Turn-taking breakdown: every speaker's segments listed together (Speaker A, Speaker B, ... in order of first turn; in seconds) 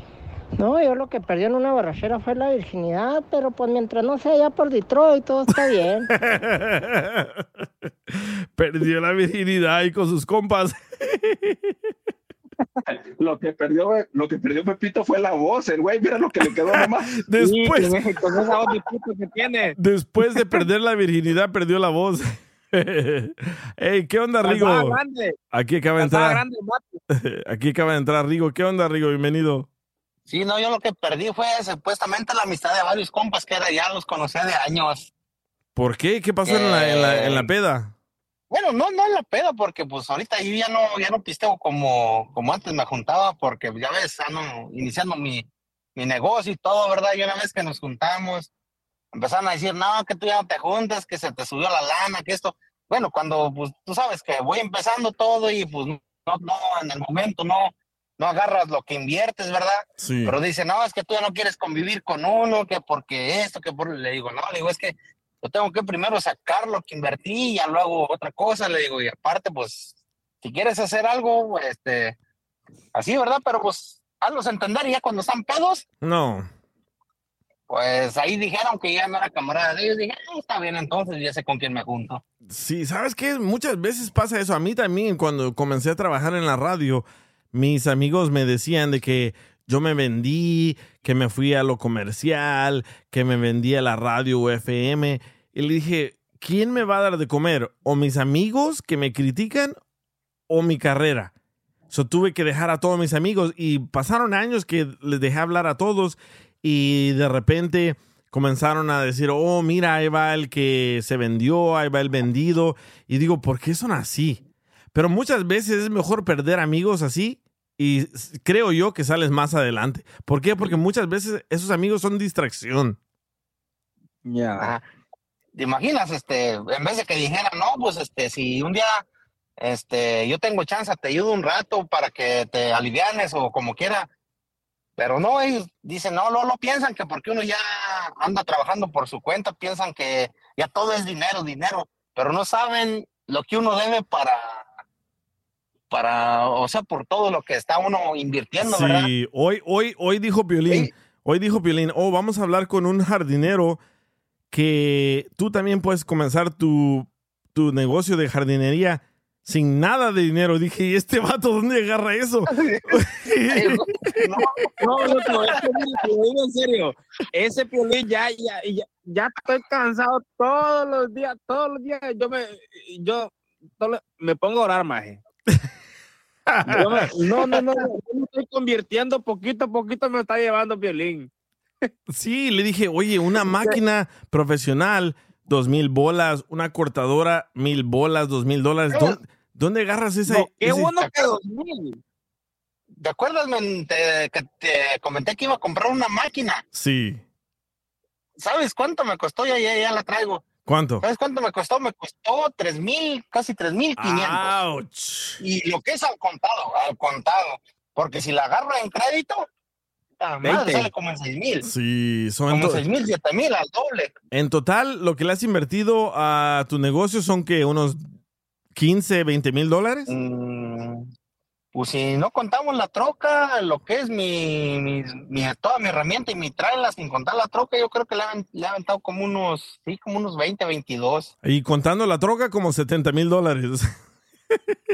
Speaker A: 0.6-6.1
Speaker B: 6.1-7.4, 8.1-11.8, 16.7-18.0, 19.8-25.0, 25.5-26.4, 27.1-29.7, 35.8-37.9, 60.0-60.4, 76.0-76.5, 82.5-99.8, 100.5-101.3, 101.9-114.4, 114.9-123.0, 148.6-153.8, 154.5-164.2, 176.5-177.1, 182.1-191.0, 196.7-197.2, 200.7-201.1, 204.0-205.4, 211.6-212.9, 214.3-218.1, 218.8-220.1, 231.4-233.9
Speaker C: 12.9-17.1
Speaker D: 17.4-19.8, 24.4-25.4, 26.0-26.9, 124.2-124.8, 164.8-175.2, 176.7-181.3, 190.3-192.0, 210.4-210.9
Speaker E: 30.3-35.1, 36.5-37.5, 38.5-48.5, 49.1-72.2, 72.9-75.9, 77.7-82.2, 125.5-129.1, 129.6-134.1, 135.0-144.7, 145.9-149.1, 163.5-165.6, 193.0-196.6, 198.4-200.5, 201.0-204.5, 205.4-209.5, 210.2-211.7, 212.5-214.1, 220.1-221.1, 221.7-231.3